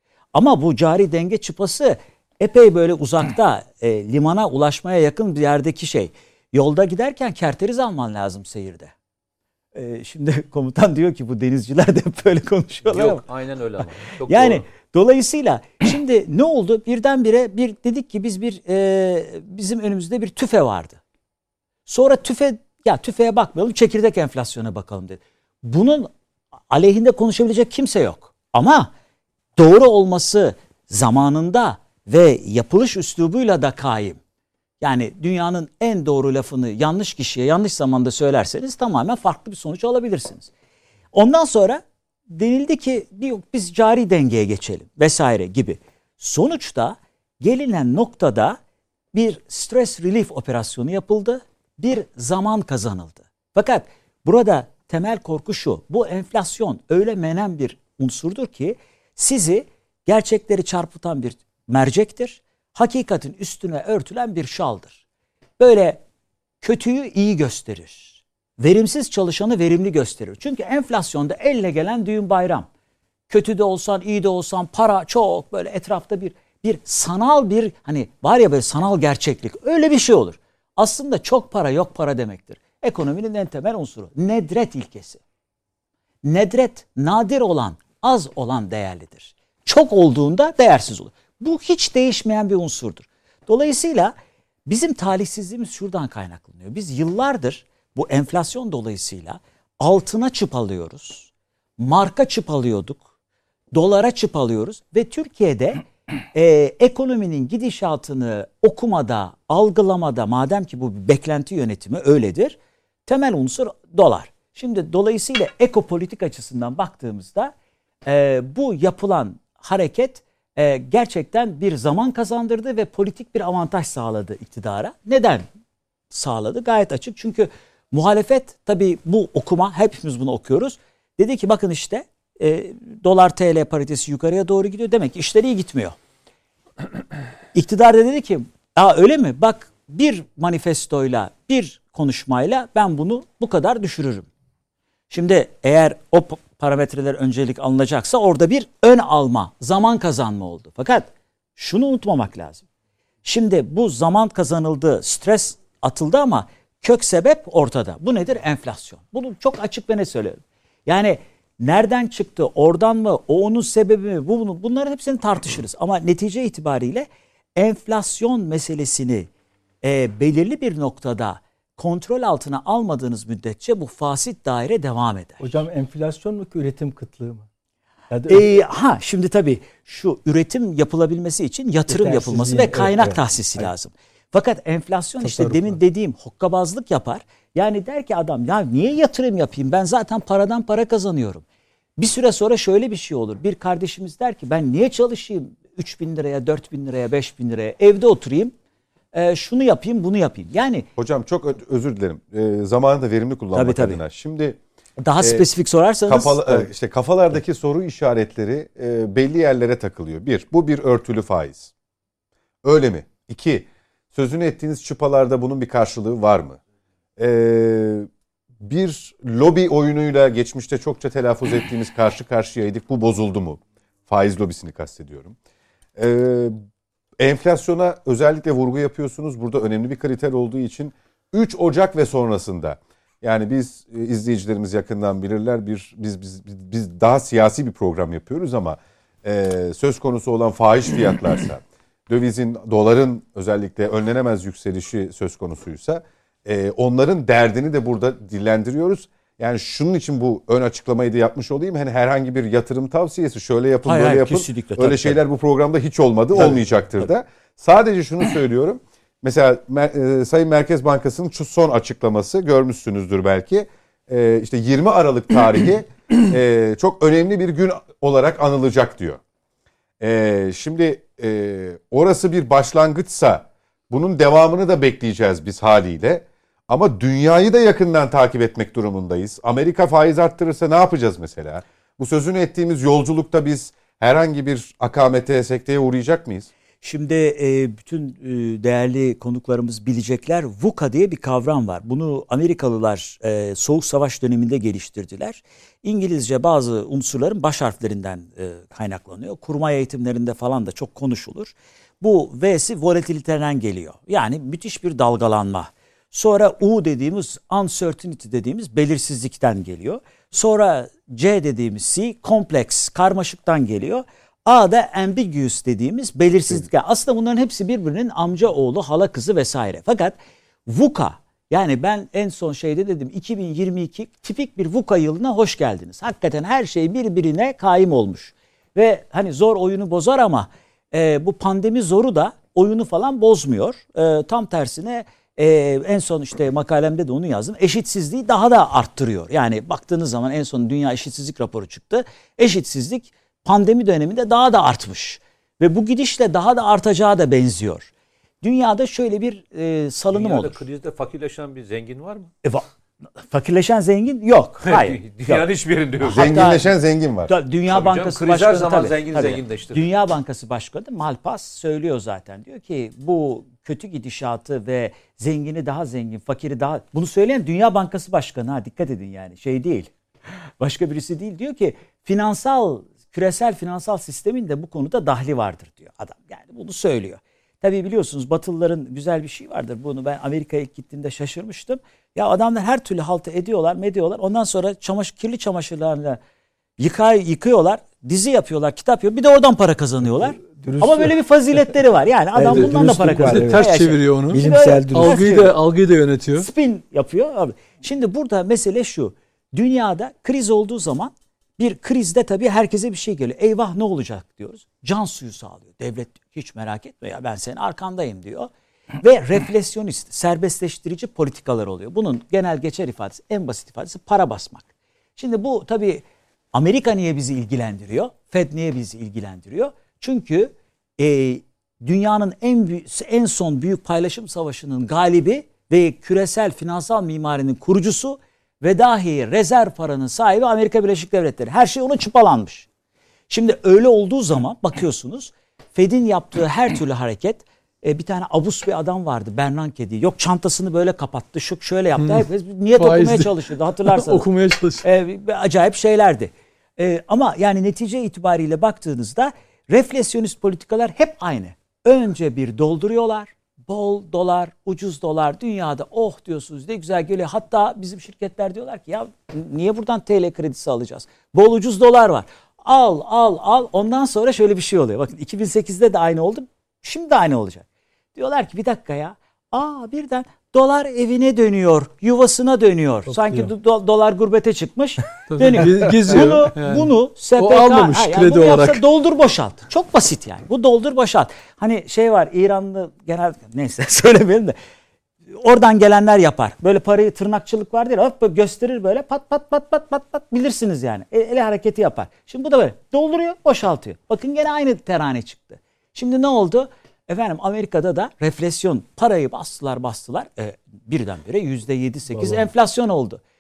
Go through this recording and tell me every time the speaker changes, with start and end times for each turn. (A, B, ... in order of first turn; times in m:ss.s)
0:00.3-0:08.9 A
0:09.7-0:13.2 A
0:12.9-0:14.7 B
0:13.8-0:21.0 A
0:21.9-0:26.1 A
0:26.7-0:28.9 A
0:29.6-0:34.2 A
0:34.8-0:40.5 A
0:41.1-0:48.6 A
0:49.1-1:05.0 A
1:05.6-1:06.0 A
1:06.6-1:12.7 A
1:13.3-1:25.2 A
1:26.2-1:34.2 A
1:34.7-1:43.0 A
1:43.7-1:57.5 A
1:58.1-2:05.4 A
2:06.1-2:16.0 A
2:17.5-2:24.3 A
2:25.1-2:32.6 A
2:33.2-2:49.3 A
2:49.8-2:55.4 A
2:55.4-2:57.5 C
2:58.1-2:58.6 C
2:58.3-3:11.4 A
3:01.9-3:03.7 C
3:05.2-3:05.8 C
3:12.0-3:18.5 A
3:19.1-3:20.9 A
3:21.0-3:24.6 D
3:23.5-3:24.0 A
3:25.0-3:26.7 A
3:25.2-3:25.4 D
3:26.1-3:31.7 D
3:32.6-3:36.6 D
3:37.2-3:38.1 D
3:38.6-3:45.4 D
3:46.0-3:46.6 D
3:47.2-4:29.2 D
4:13.8-4:15.2 A
4:30.0-4:46.5 D
4:46.8-5:47.9 A
5:48.4-5:50.6 A
5:50.1-5:52.3 B
5:53.2-5:55.4 A
5:54.6-5:56.6 B
5:56.0-5:56.7 A
5:56.1-5:57.3 D
5:57.3-6:09.9 A
5:57.7-5:59.9 B
6:10.6-6:26.2 A
6:26.8-6:35.6 A
6:30.2-6:31.1 C
6:32.4-6:33.7 C
6:32.5-6:36.5 E
6:34.3-6:35.5 C
6:36.4-7:12.7 A
7:13.3-7:24.3 A
7:22.0-7:24.8 E
7:24.8-8:04.6 A
7:53.1-7:53.5 E
7:55.3-7:58.8 E
8:05.3-8:23.2 A
8:22.2-8:22.4 C